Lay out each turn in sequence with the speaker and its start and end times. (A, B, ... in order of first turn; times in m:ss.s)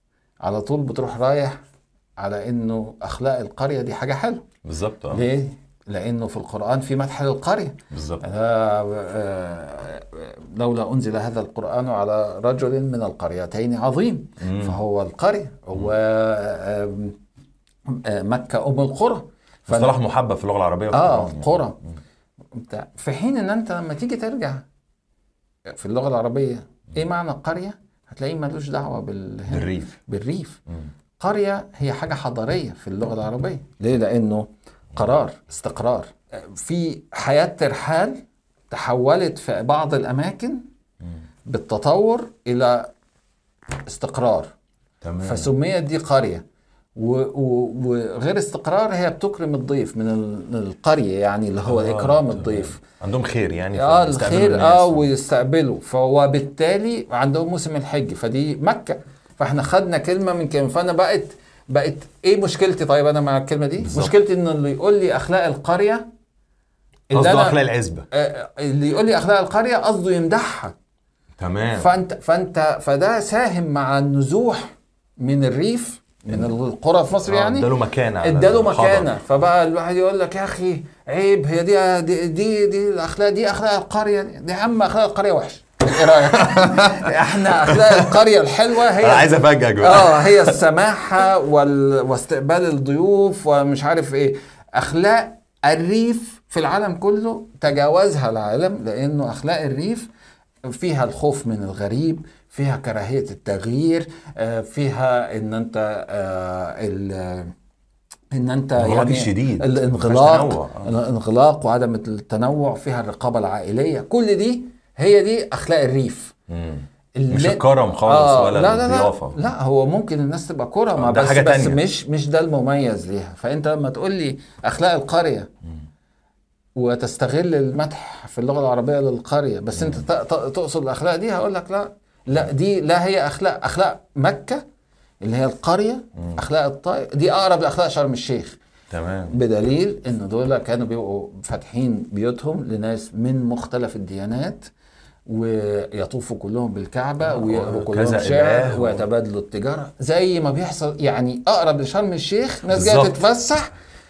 0:00.4-0:01.6 A
0:02.2-0:04.4 A
0:04.6-0:05.2 B
0:05.1-0:17.2 A
0:07.9-0:08.3 B
0:14.4-0:14.8 B
0:17.9-0:20.0 A
0:19.7-0:21.6 B
0:20.9-0:21.8 A
0:22.6-0:24.7 A
0:25.7-0:30.6 A
0:29.5-0:30.0 B
0:31.2-0:40.6 A
0:41.5-0:42.9 A
0:43.9-0:44.5 A
0:45.0-0:45.5 B
0:45.2-0:46.4 A
0:47.0-0:52.8 A
0:51.7-0:55.0 B
0:53.7-1:06.1 A
1:03.8-1:04.1 B
1:07.1-1:07.6 A
1:07.1-1:08.1 B
1:08.1-1:10.8 A
1:11.4-1:11.9 B
1:11.8-1:40.1 A
1:17.3-1:19.1 B
1:26.1-1:28.1 B
1:29.0-1:30.6 B
1:40.7-1:47.5 A
1:48.3-1:56.3 A
1:48.8-1:50.9 B
1:56.5-1:59.4 B
1:57.2-2:05.5 A
2:01.0-2:01.8 B
2:06.8-2:14.6 A
2:15.2-2:18.6 A
2:18.9-2:19.4 B
2:19.3-2:24.7 A
2:25.3-2:33.7 A
2:27.3-2:29.0 B
2:32.7-2:33.2 B